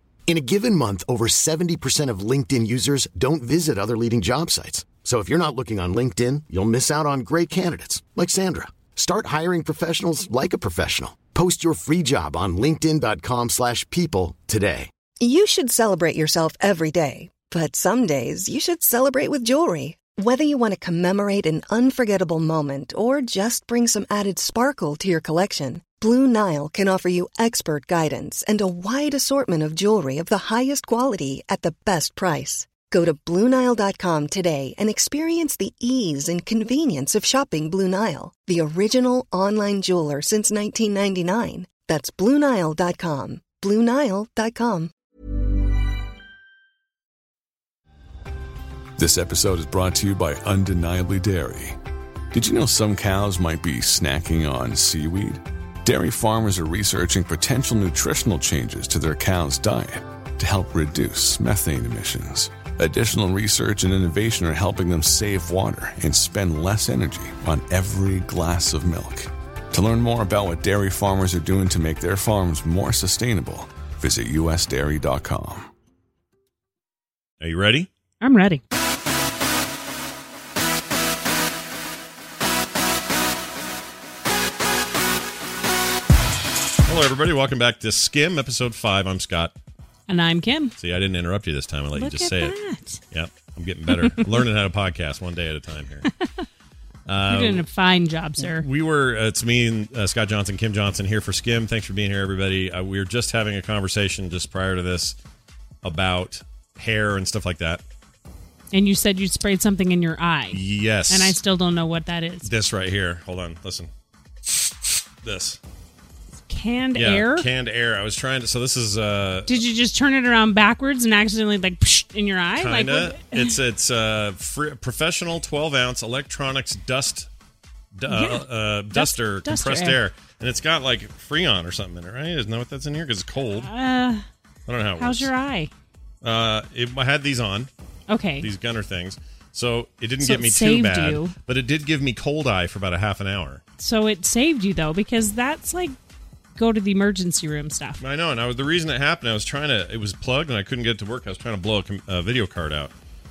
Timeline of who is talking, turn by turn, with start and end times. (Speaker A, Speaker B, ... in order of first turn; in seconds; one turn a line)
Speaker A: 0.3-14.9
Speaker B: 15.2-44.9
Speaker C: 49.0-51.8
Speaker C: 52.3-75.7
Speaker D: 77.4-77.9
Speaker E: 78.2-78.6
Speaker D: 86.9-89.5
Speaker E: 90.1-90.8
Speaker D: 90.8-92.5
Speaker E: 92.0-93.0
Speaker D: 93.1-96.1
Speaker E: 94.0-94.4
Speaker D: 97.1-97.7
Speaker E: 97.3-98.7
Speaker D: 98.4-105.2
Speaker D: 105.8-107.8
Speaker E: 108.7-112.5
Speaker D: 110.5-111.4
Speaker D: 112.4-113.9
Speaker D: 115.2-115.6
Speaker E: 116.5-117.5
Speaker D: 117.0-119.6
Speaker E: 119.5-123.6
Speaker D: 122.6-127.3
Speaker D: 128.0-133.7
Speaker E: 128.1-130.0
Speaker E: 133.4-134.3
Speaker D: 134.7-135.3
Speaker E: 135.0-135.7
Speaker D: 136.2-137.7
Speaker E: 138.1-138.5
Speaker D: 138.4-143.6
Speaker E: 140.2-141.3
Speaker E: 143.8-146.0
Speaker E: 146.6-148.0
Speaker D: 148.0-152.9